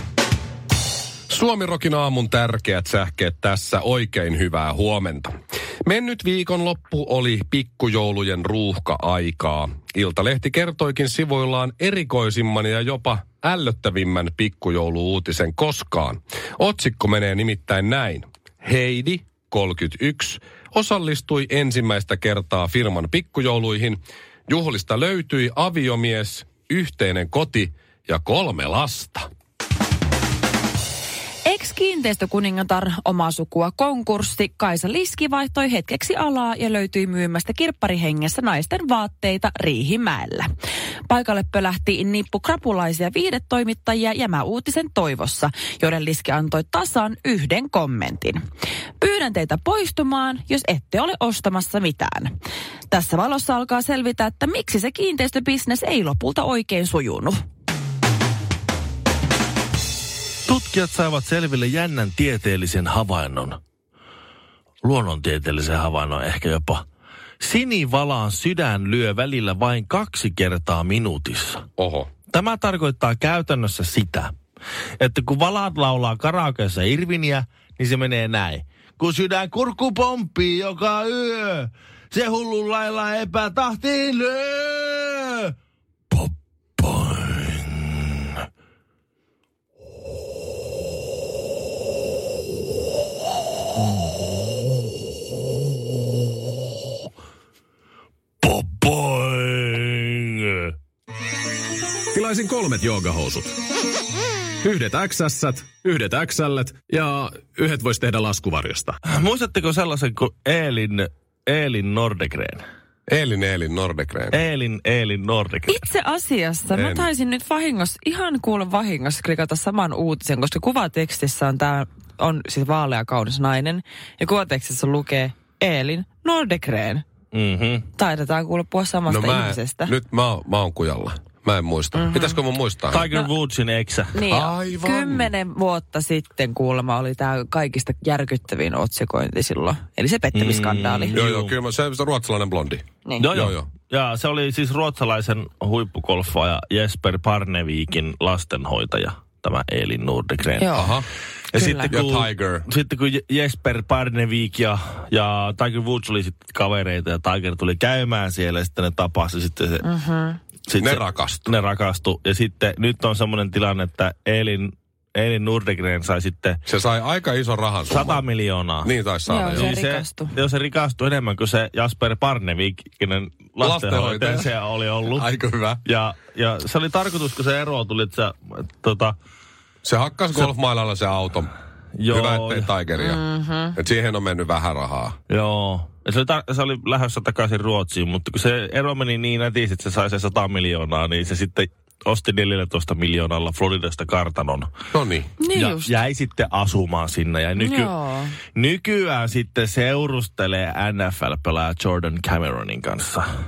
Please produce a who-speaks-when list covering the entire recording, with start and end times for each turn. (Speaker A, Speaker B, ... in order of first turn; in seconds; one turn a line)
Speaker A: 1.3-5.3
Speaker A: 5.8-29.3
Speaker B: 31.4-40.5
Speaker B: 41.1-48.4
Speaker B: 49.0-52.3
Speaker B: 52.9-57.4
Speaker C: 60.5-63.6
Speaker C: 64.8-66.8
Speaker C: 67.4-71.6
Speaker A: 71.8-72.1
Speaker C: 72.3-74.3
Speaker C: 75.0-85.5
Speaker C: 86.1-88.4
Speaker C: 98.4-100.7
Speaker D: 102.1-103.5
Speaker D: 104.6-109.0
Speaker C: 109.0-112.6
Speaker A: 113.1-114.4
Speaker C: 114.3-115.8
Speaker B: 115.7-127.0
Speaker A: 116.7-117.1
Speaker C: 127.3-127.8
Speaker B: 128.0-129.9
Speaker A: 129.1-133.1
Speaker B: 132.0-132.3
Speaker C: 132.9-134.1
Speaker B: 134.1-141.1
Speaker A: 134.3-135.3
Speaker C: 140.3-141.5
Speaker A: 141.1-143.7
Speaker C: 143.2-150.8
Speaker B: 150.6-150.9
Speaker A: 150.7-151.1
Speaker C: 151.5-159.8
Speaker B: 151.5-151.9
Speaker A: 151.9-152.7
Speaker B: 159.8-160.4
Speaker C: 160.7-166.6
Speaker A: 160.8-161.5
Speaker A: 166.7-168.2
Speaker C: 167.9-168.9
Speaker A: 168.8-169.7
Speaker B: 169.3-170.3
Speaker C: 169.5-175.3
Speaker A: 173.6-174.5
Speaker A: 175.1-175.8
Speaker C: 175.8-179.1
Speaker A: 179.8-181.5
Speaker C: 182.0-182.7
Speaker A: 182.1-183.2
Speaker B: 182.9-183.8
Speaker A: 183.7-185.2
Speaker C: 185.3-194.7
Speaker A: 194.9-195.3
Speaker B: 195.4-195.9
Speaker C: 195.5-197.9
Speaker B: 197.6-198.3
Speaker C: 198.5-203.3